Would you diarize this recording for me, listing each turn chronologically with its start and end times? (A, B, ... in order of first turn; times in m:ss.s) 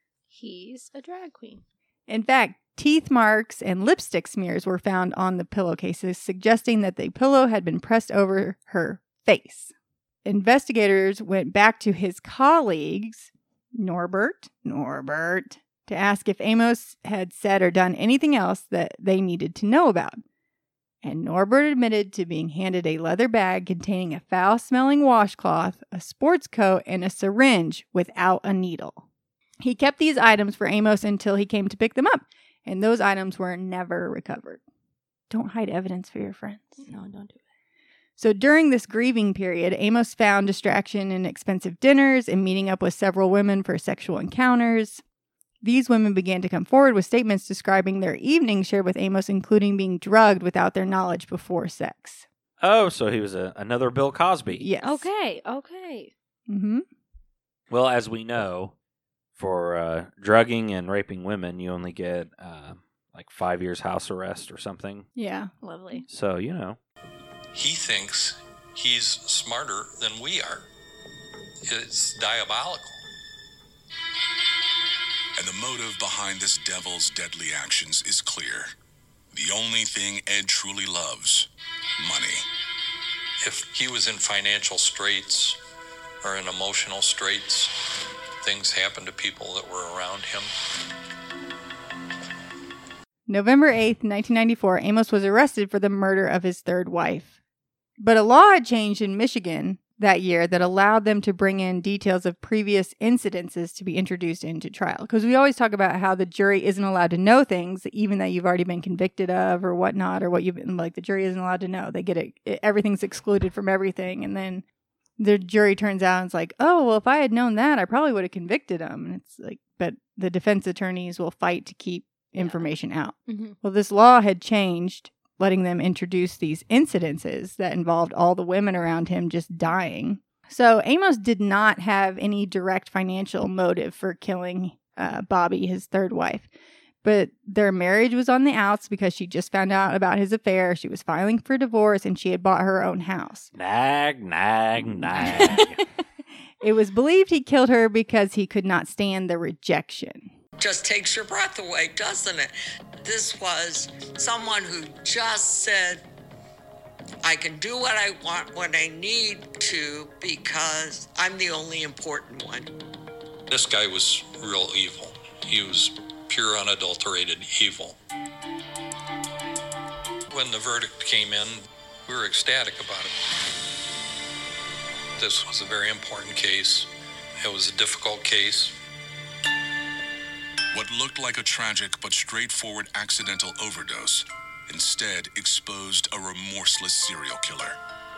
0:00.3-0:01.6 A
0:02.1-0:09.7 B
0:10.2-0:20.2 B
0:21.0-0:29.0 B
0:29.6-0:34.6 B
0:35.3-0:36.8 B
0:36.8-0:37.4 A
0:38.2-0:45.0 B
0:45.6-0:52.2 B
0:52.6-0:54.7 C
0:54.5-0:55.1 B
0:54.8-0:56.1 A
0:56.5-0:56.8 B
0:57.7-0:58.7 C
0:59.4-1:05.1 C
1:05.2-1:05.5 B
1:05.6-1:06.0 A
1:06.1-1:06.8 C
1:07.5-1:10.7 D
1:11.7-1:13.0 D
1:15.4-1:18.7 E
1:19.3-1:22.5 E
1:23.4-1:25.6 D
1:26.2-1:27.7 D
1:28.4-1:30.5 D
1:33.3-1:37.4 B
1:38.0-1:54.6 B
1:55.2-2:16.5 B
2:02.4-2:02.7 A
2:03.3-2:03.6 A
2:17.0-2:23.5 B
2:23.6-2:25.8 C
2:24.8-2:25.7 B
2:26.6-2:30.3 B
2:30.6-2:36.0 F
2:37.2-2:42.7 F
2:43.5-2:48.0 D
2:50.3-2:53.2 D
2:55.2-2:58.8 D
3:00.7-3:07.8 E